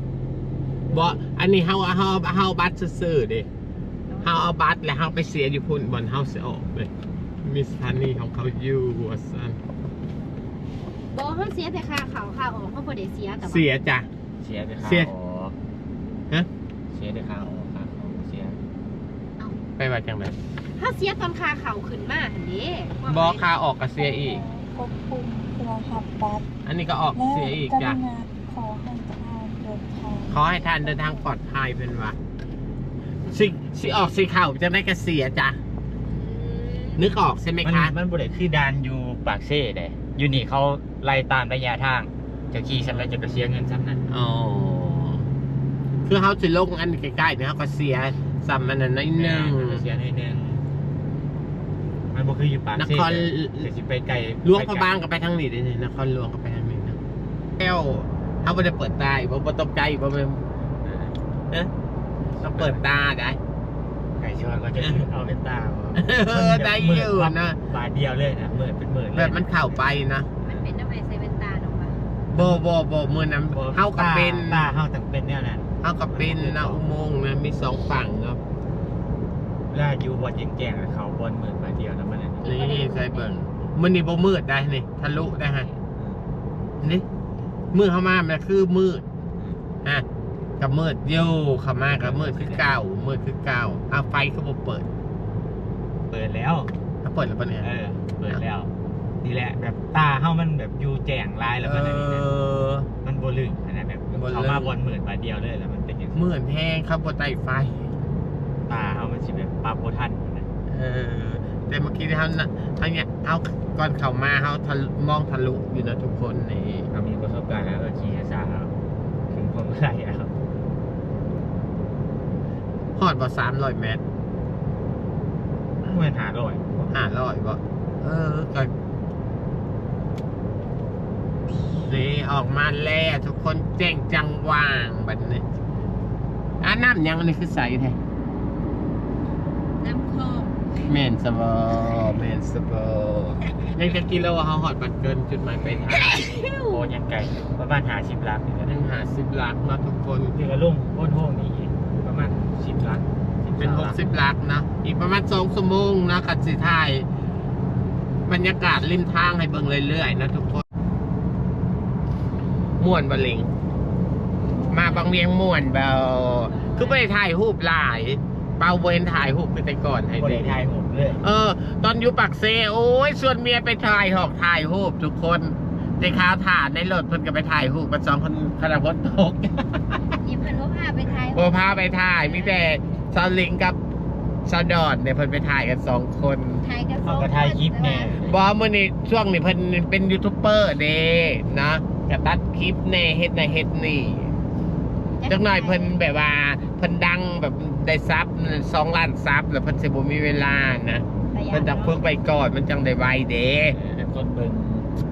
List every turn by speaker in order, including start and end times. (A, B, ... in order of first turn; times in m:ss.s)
0:00.9-0:03.5 A
0:04.1-0:04.5 B
0:04.2-0:06.9 A
0:07.4-0:09.6 A
0:11.1-0:13.7 B
0:13.4-0:14.1 A
0:14.4-0:15.5 C
0:14.8-0:15.1 A
0:16.9-0:18.6 C
0:19.8-0:20.4 A
0:20.8-0:23.4 B
0:23.1-0:24.4 A
0:24.0-0:26.5 D
0:26.6-0:28.0 A
0:27.1-0:30.3 D
0:30.3-0:32.2 A
0:33.3-0:35.6 A
0:37.0-0:37.9 A
0:37.6-0:44.0 C
0:44.1-0:45.3 A
0:46.0-0:49.8 A
0:49.1-0:50.6 C
0:52.1-0:54.9 C
0:52.8-0:53.7 A
0:54.4-0:57.0 A
0:57.6-1:00.4 A
1:00.8-1:01.1 C
1:02.4-1:02.8 C
1:02.4-1:03.4 A
1:04.2-1:09.8 C
1:04.8-1:05.0 A
1:06.0-1:07.6 A
1:09.1-1:10.3 A
1:10.4-1:12.0 B
1:12.3-1:14.7 A
1:12.4-1:12.6 C
1:13.5-1:16.8 C
1:15.8-1:18.4 A
1:19.7-1:22.5 C
1:22.4-1:23.3 B
1:22.4-1:25.7 A
1:25.7-1:26.2 C
1:27.7-1:29.0 A
1:30.6-1:34.9 A
1:32.0-1:32.8 C
1:36.1-1:36.7 C
1:37.0-1:37.7 A
1:37.6-1:38.7 C
1:39.2-1:42.3 C
1:41.6-1:42.9 A
1:43.0-1:46.2 C
1:44.1-1:44.7 A
1:46.1-1:47.9 A
1:48.7-1:50.5 C
1:50.7-1:56.9 A
1:56.9-1:58.7 C
1:59.3-2:00.3 C
2:03.0-2:04.0 A
2:05.8-2:06.9 C
2:06.9-2:08.7 A
2:11.8-2:15.4 A
2:16.6-2:18.0 A
2:19.8-2:20.5 B
2:20.9-2:26.0 A
2:25.6-2:26.1 C
2:25.9-2:26.9 B
2:26.7-2:28.8 C
2:28.6-2:30.3 A
2:30.3-2:34.0 C
2:33.6-2:37.0 A
2:38.3-2:40.6 A
2:42.8-2:43.5 A
2:44.5-2:45.2 B
2:44.7-2:50.6 A
2:46.6-2:46.9 B
2:50.1-2:51.2 C
2:51.2-2:59.7 A
3:00.2-3:02.6 B
3:01.3-3:03.8 A
3:04.4-3:06.6 A
3:06.6-3:08.2 B
3:07.0-3:08.3 C
3:08.2-3:14.3 A
3:15.2-3:16.0 B
3:15.3-3:23.8 A
3:21.3-3:22.0 B
3:23.8-3:24.9 C